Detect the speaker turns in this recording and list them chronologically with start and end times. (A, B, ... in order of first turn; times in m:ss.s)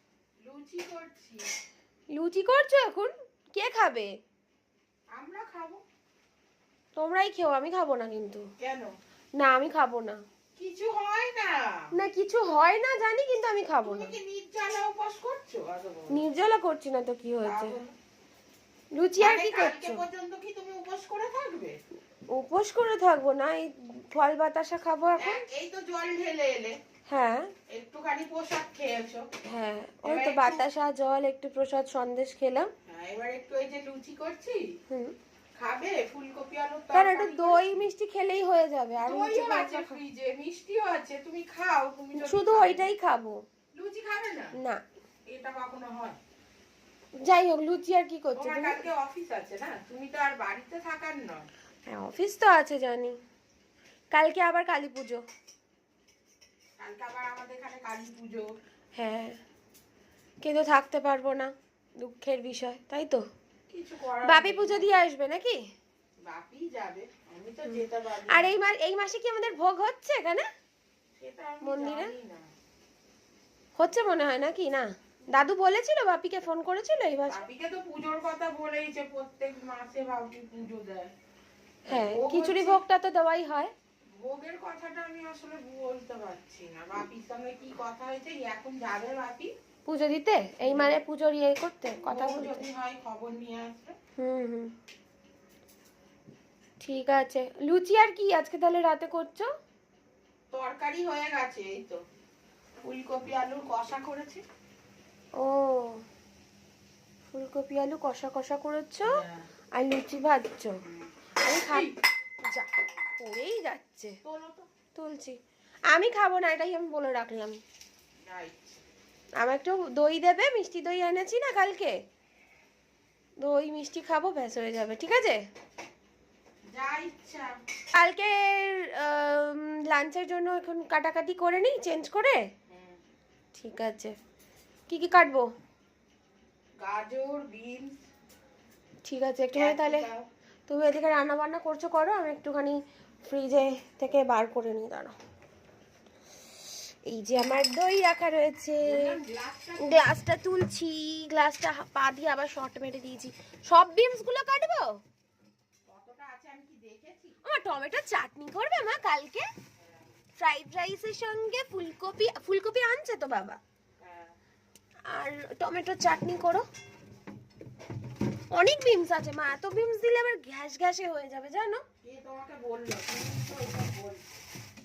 0:00.4-0:01.5 A
0:02.1-0:04.1 B
0:05.1-0:05.8 A
0:07.0-0:08.5 B
0:08.6-0:08.9 A
0:09.4-0:10.2 B
0:10.6-0:11.9 A
0:11.9-0:14.2 B
0:13.8-0:16.2 A
0:16.1-0:17.8 B
0:17.4-0:17.9 A
0:18.9-0:20.0 B
0:19.2-0:21.8 A
0:22.3-0:25.4 B
0:25.2-0:26.8 A
0:27.1-0:27.5 B
0:27.7-0:29.3 A
0:29.4-0:32.7 B
0:30.0-0:30.7 A
0:32.8-0:34.7 A
0:34.9-0:35.1 B
0:35.6-0:37.8 A
0:36.9-0:40.0 B
0:39.0-0:42.8 A
0:42.2-0:43.4 B
0:43.7-0:44.5 A
0:44.6-0:44.8 B
0:45.3-0:46.2 A
0:47.2-0:48.9 B
0:48.4-0:51.4 A
0:51.9-0:53.2 B
0:54.1-0:55.2 B
0:56.8-0:58.5 A
0:59.0-0:59.4 B
1:00.4-1:03.2 B
1:03.7-1:04.9 A
1:04.2-1:05.7 B
1:06.2-1:08.6 A
1:08.3-1:10.4 B
1:11.2-1:12.4 A
1:11.6-1:12.1 B
1:13.8-1:17.4 B
1:17.3-1:21.1 A
1:21.8-1:23.7 B
1:21.9-1:22.8 A
1:24.1-1:29.5 A
1:29.8-1:32.6 B
1:30.6-1:31.0 A
1:32.0-1:34.0 A
1:34.2-1:34.7 B
1:36.8-1:39.5 B
1:40.5-1:42.0 A
1:42.8-1:44.4 A
1:45.4-1:46.0 B
1:47.3-1:49.2 B
1:49.0-1:49.4 A
1:49.8-1:50.8 B
1:51.4-1:51.9 B
1:51.5-1:51.9 A
1:52.4-1:54.2 B
1:54.2-1:54.7 A
1:54.9-1:55.4 B
1:55.9-1:57.6 B
1:58.3-1:58.8 A
1:59.4-2:02.0 B
2:03.4-2:05.4 B
2:06.7-2:07.5 A
2:07.9-2:12.5 B
2:12.7-2:13.0 A
2:13.6-2:14.2 B
2:14.9-2:15.5 B
2:16.8-2:17.9 A
2:19.0-2:20.1 B
2:19.5-2:20.3 A
2:20.7-2:25.1 B
2:27.0-2:29.2 B
2:28.8-2:30.1 A
2:29.8-2:35.0 B
2:35.8-2:37.4 A
2:37.4-2:39.5 B
2:40.4-2:43.6 B
2:44.0-2:44.3 A
2:45.1-2:46.7 B
2:48.5-2:51.8 B
2:52.0-2:54.3 A